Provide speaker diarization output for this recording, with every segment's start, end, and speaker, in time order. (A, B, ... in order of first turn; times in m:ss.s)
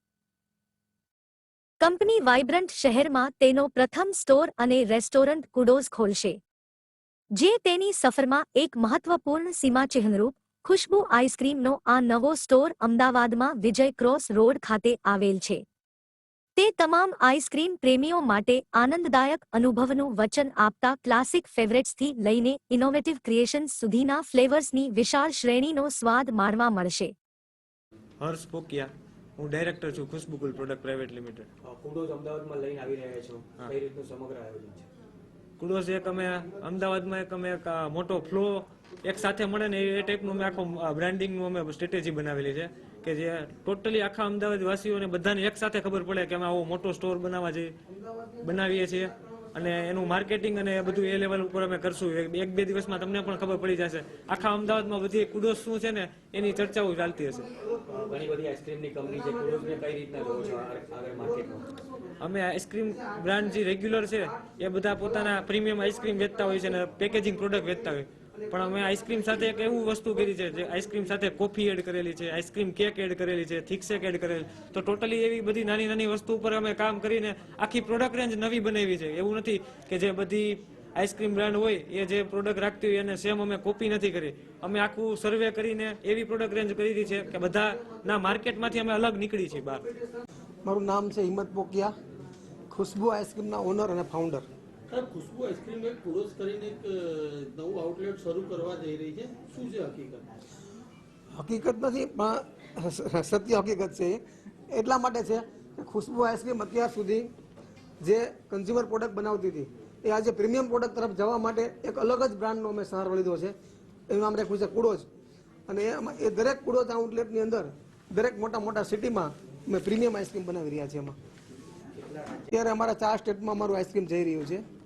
0:01.8-0:06.4 A
0:07.4-0:15.6 A
0:16.6-0:27.1 A
0:28.2-0:31.5 B
0:31.6-0:34.9 C
0:35.6-0:47.7 B
0:48.4-0:57.5 B
0:57.9-1:01.8 C
1:02.2-1:29.9 B
1:30.6-1:31.9 D
1:32.7-1:34.5 D
1:34.9-1:40.3 E
1:41.4-1:47.3 D
1:48.0-1:53.6 D
1:54.1-1:55.1 D
1:55.7-2:01.2 D
2:02.0-2:02.5 C
2:02.5-2:04.6 D